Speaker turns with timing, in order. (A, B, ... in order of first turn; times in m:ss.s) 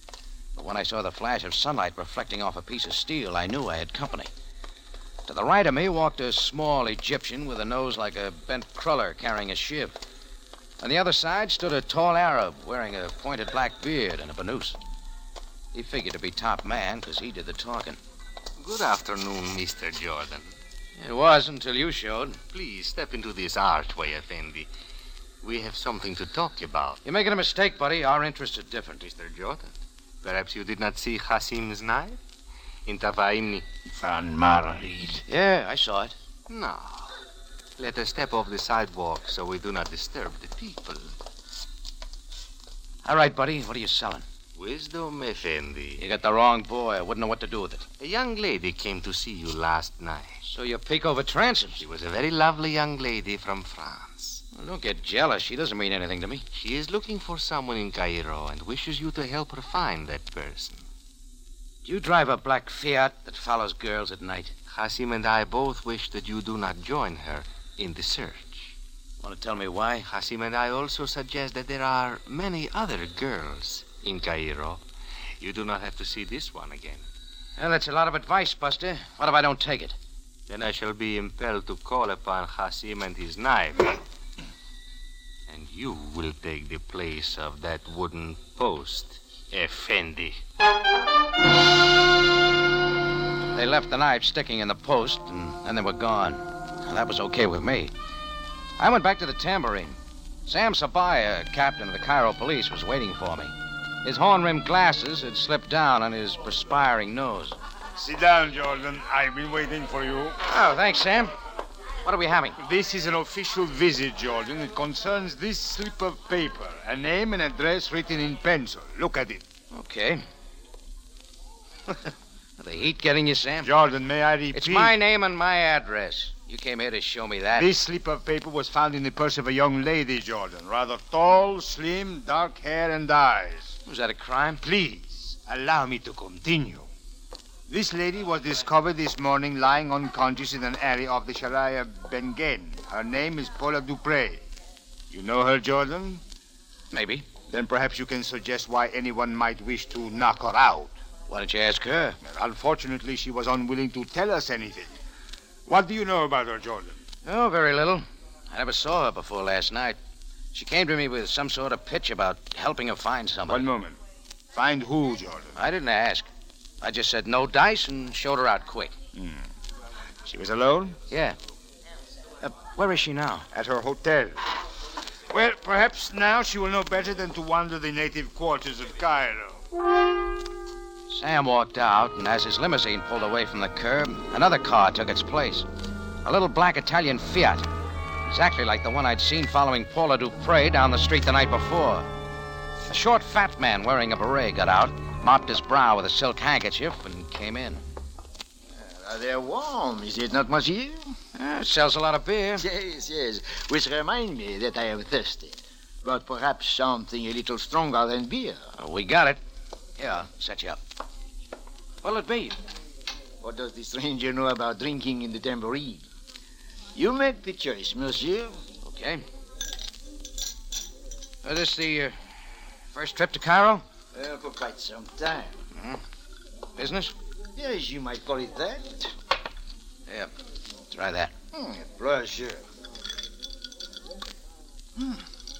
0:00.6-0:04.3 A
0:05.3-0:10.0 A
0:10.8-0:14.8 A
0:15.7-0:18.0 A
0:18.6-0:20.5 B
0:21.0-0:22.4 A
0:22.5-0:24.7 B
0:25.4-0:27.0 B
0:27.0-0:29.0 A
0:29.0-0:32.2 B
0:32.8-0:33.6 B
0:33.8-0:35.2 C
0:35.3-0:36.1 A
0:36.5-0:37.2 B
0:37.8-0:41.1 B
0:43.0-0:44.2 A
0:44.5-0:46.0 B
0:46.0-0:47.8 A
0:48.0-0:50.4 B
0:50.4-0:51.8 A
0:51.8-0:54.4 B
0:54.5-0:56.4 A
0:56.5-1:00.9 B
1:01.8-1:04.5 A
1:04.7-1:08.7 B
1:09.2-1:10.0 A
1:10.0-1:14.8 B
1:15.4-1:17.0 B
1:17.6-1:20.0 A
1:20.5-1:24.0 B
1:25.5-1:30.4 B
1:33.5-1:37.9 A
1:38.8-1:43.5 A
1:44.0-1:47.6 A
1:47.9-1:50.4 C
1:50.4-1:51.3 A
1:52.0-1:52.6 A
1:52.6-1:59.4 C
1:59.7-2:00.2 A
2:02.6-2:03.7 A
2:03.6-2:04.9 C
2:04.5-2:07.7 A
2:07.6-2:13.7 C
2:13.8-2:14.6 A
2:14.6-2:16.9 C
2:17.7-2:24.4 C
2:25.1-2:26.2 C
2:26.9-2:27.2 A
2:27.5-2:30.9 C
2:31.3-2:32.2 A
2:32.2-2:34.9 C
2:35.6-2:37.0 C
2:37.2-2:40.0 A
2:40.5-2:43.6 A
2:43.5-2:44.0 C
2:44.5-2:45.6 C
2:45.6-2:46.3 A
2:46.8-2:48.9 A
2:49.1-2:49.5 C
2:50.2-2:51.0 C
2:51.1-2:51.4 A
2:52.4-2:53.5 A
2:53.5-2:54.5 C
2:55.3-2:59.6 C
3:01.1-3:05.6 A
3:06.2-3:07.6 A
3:08.2-3:12.1 A
3:12.9-3:17.8 A
3:18.7-3:21.2 D
3:21.3-3:22.6 A
3:22.6-3:28.7 D
3:28.8-3:29.4 A
3:30.0-3:30.8 A
3:32.0-3:32.6 A
3:33.4-3:36.0 D
3:36.9-3:38.6 D
3:38.8-3:39.2 A
3:41.4-3:42.2 A
3:42.9-3:43.8 A
3:44.1-3:45.5 D
3:45.7-3:46.0 A
3:46.8-3:47.1 A
3:47.6-3:49.1 D
3:50.9-3:51.3 A
3:51.5-3:52.6 D
3:55.0-3:55.2 D